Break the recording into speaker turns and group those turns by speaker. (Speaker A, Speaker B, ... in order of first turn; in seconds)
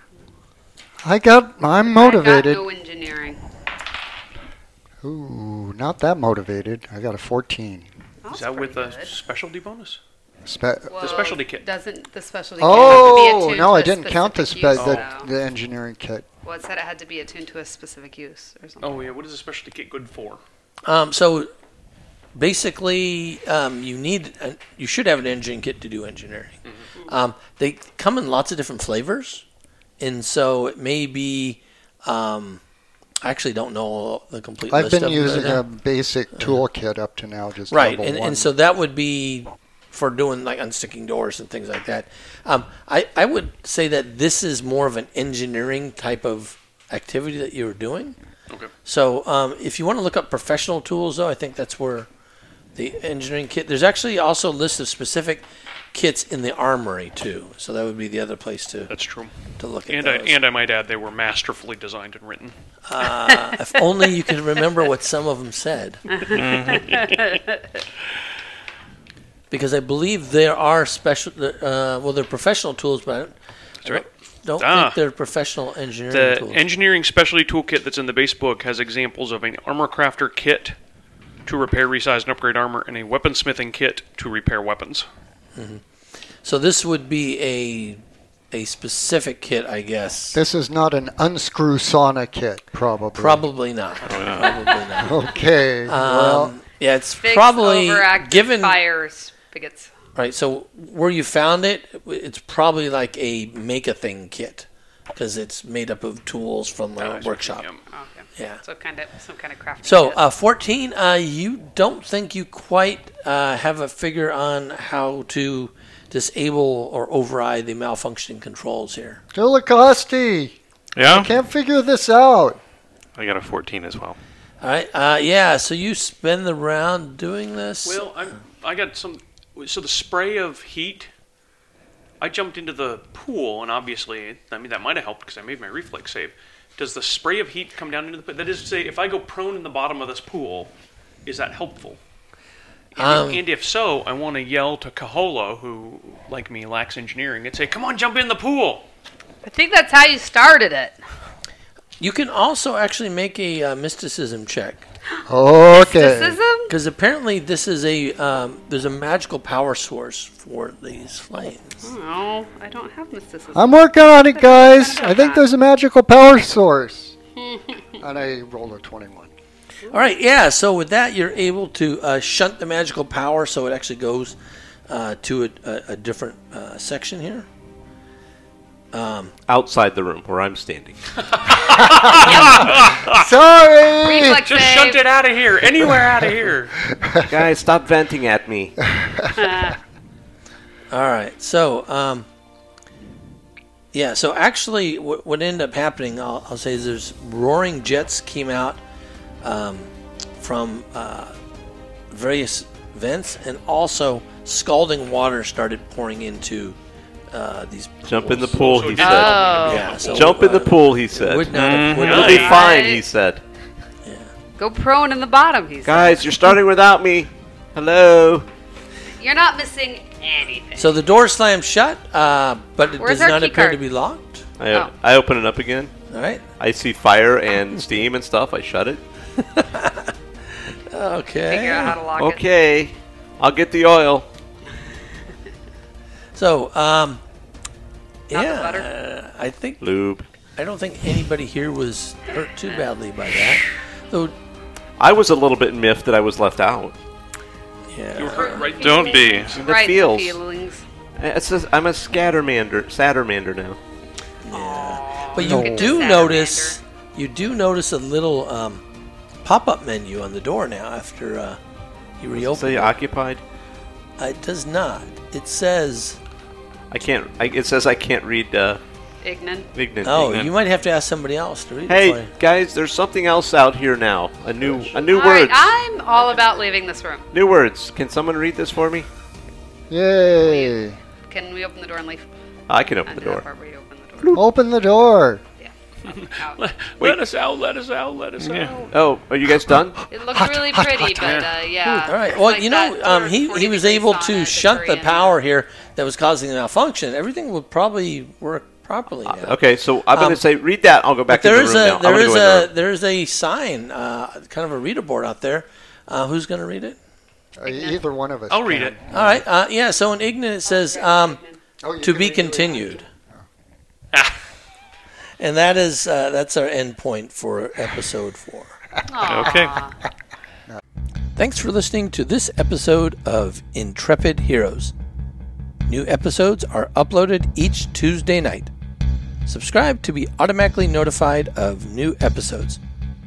Speaker A: 1.0-2.6, 5.0-7.9, 10.4-11.3, 12.6-16.3, 34.7-38.5, 90.3-93.5, 95.0-96.5, 119.3-120.6, 121.1-122.6, 155.3-156.4, 163.5-167.2, 168.0-169.3, 181.7-184.5, 187.0-187.4, 189.0-189.4, 255.4-256.2, 279.9-281.0, 284.3-285.4, 290.3-291.5, 307.6-309.4, 311.8-313.4
Speaker B: 1.9-3.4, 8.2-9.1, 10.9-15.3, 16.4-19.0, 66.7-67.6, 97.2-99.9, 107.9-110.2, 149.4-151.0, 155.7-156.7, 161.8-163.8, 164.3-165.4, 181.7-183.0, 184.0-185.0, 189.3-189.8, 209.0-210.1, 212.2-213.1, 214.6-216.3, 219.2-220.9, 223.0-223.8, 231.5-232.4, 238.3-238.9, 248.3-250.8, 254.5-256.8, 269.2-269.7, 275.0-277.3, 280.4-280.8, 281.3-282.2, 283.1-284.4, 285.6-286.6, 290.1-295.4, 307.7-308.0, 310.7-311.6, 312.3-312.9, 319.1-319.9
Speaker C: 8.3-10.0, 11.0-11.7, 12.7-13.3, 14.7-15.1, 18.8-20.4, 58.9-59.3, 59.9-62.5, 74.6-75.0, 76.1-80.8, 81.5-85.1, 107.0-107.8, 127.8-131.1, 132.2-140.7, 141.2-142.0, 143.0-148.8, 181.4-183.2, 184.4-186.8, 208.6-210.5, 212.0-212.7, 248.2-249.6, 286.1-288.9, 291.2-291.5, 308.5-309.0
Speaker D: 20.9-21.5, 22.4-26.6, 27.1-29.4, 30.0-32.6, 33.2-35.6, 37.7-48.2, 48.9-52.1, 52.8-58.9, 59.6-60.4, 62.9-66.0, 69.5-76.7, 85.6-85.8, 86.4-90.4, 93.2-95.3, 95.9-98.8, 100.2-107.7, 108.4-108.6, 109.8-119.2, 124.6-128.1, 143.0-143.4, 152.0-154.9, 156.7-161.8, 169.9-174.4, 174.9-177.5, 178.9-179.3, 190.9-192.3, 193.9-198.8, 199.4-201.3, 202.1-206.8, 207.3-208.8, 209.6-212.6, 214.1-214.3, 220.8-224.5, 226.1-226.5, 229.4-232.0, 236.3-237.2, 238.3-239.8, 240.6-244.3, 247.9-248.7, 254.4-258.8, 259.4-261.6, 262.2-263.0, 264.2-266.2, 270.0-272.3, 291.9-299.6, 300.1-300.4, 301.3-307.0, 309.1-311.4, 312.0-313.1, 315.4-318.8, 321.4-324.9, 325.9-328.7, 329.5-332.8
Speaker E: 66.3-67.0, 94.1-94.6, 121.0-121.3, 123.2-124.2, 211.5-212.3, 248.8-249.6, 288.4-288.9, 319.2-319.8
Speaker F: 179.5-181.0, 187.3-188.8, 208.1-213.4, 215.8-218.5, 224.6-225.9, 226.6-229.0, 232.2-234.3, 239.8-240.3, 245.0-247.0, 249.5-250.4, 251.2-253.8, 262.4-263.4, 266.9-268.8, 269.8-270.5, 271.9-275.8, 277.3-279.1, 282.7-283.4, 288.9-290.1, 299.3-302.7